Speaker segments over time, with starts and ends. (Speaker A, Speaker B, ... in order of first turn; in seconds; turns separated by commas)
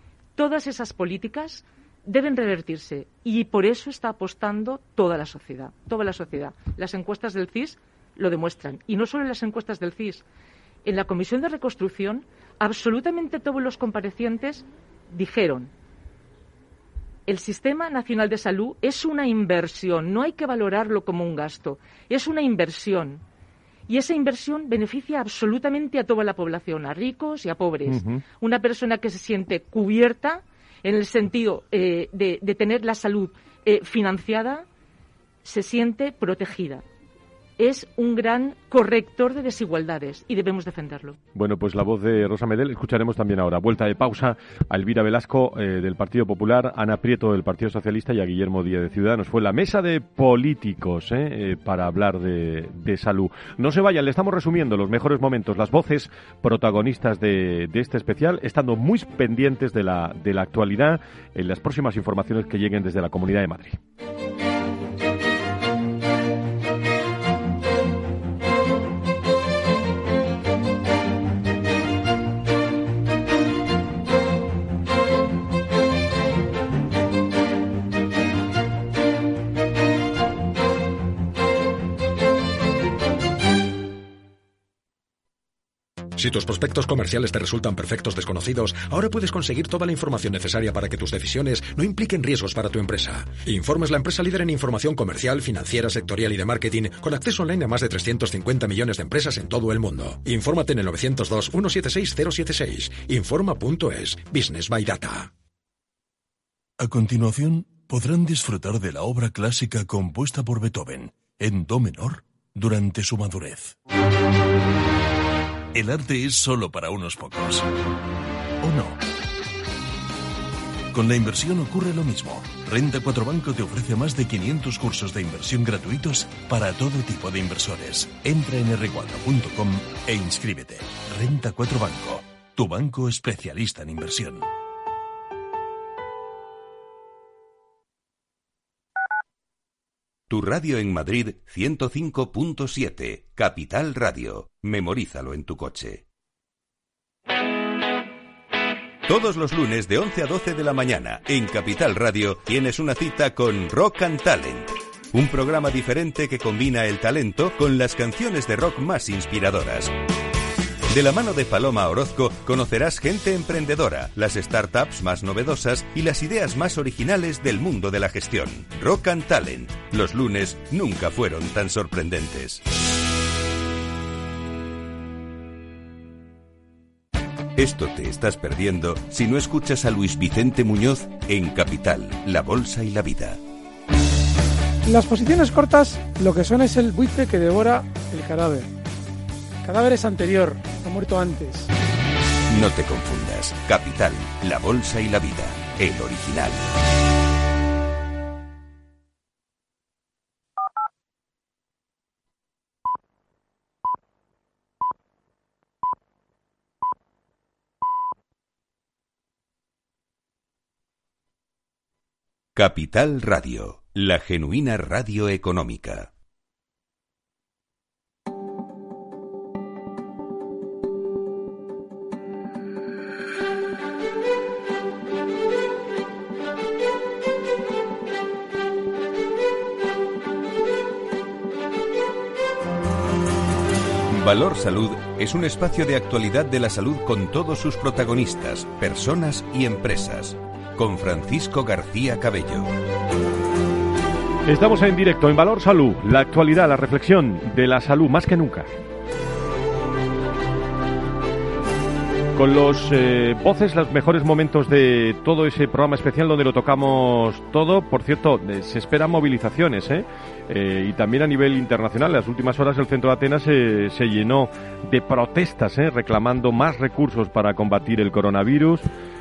Speaker A: 0.4-10.2, Speaker A: 10.8-15.7, Speaker A: 17.3-23.2, Speaker A: 23.9-34.7, Speaker B: 27.9-28.2, Speaker A: 35.4-36.8, Speaker A: 37.6-41.2, Speaker B: 41.4-63.8, Speaker C: 86.2-105.3, Speaker D: 106.8-113.8, Speaker D: 115.7-117.7, Speaker D: 118.6-119.0, Speaker D: 120.9-134.5, Speaker E: 140.3-146.0, Speaker E: 149.1-159.9, Speaker E: 160.9-172.6, Speaker E: 177.6-183.4, Speaker F: 184.8-188.7, Speaker F: 189.6-191.7, Speaker E: 192.5-196.7, Speaker E: 212.6-216.1, Speaker E: 234.1-242.7, Speaker B: 244.5-248.7, Speaker B: 252.3-268.9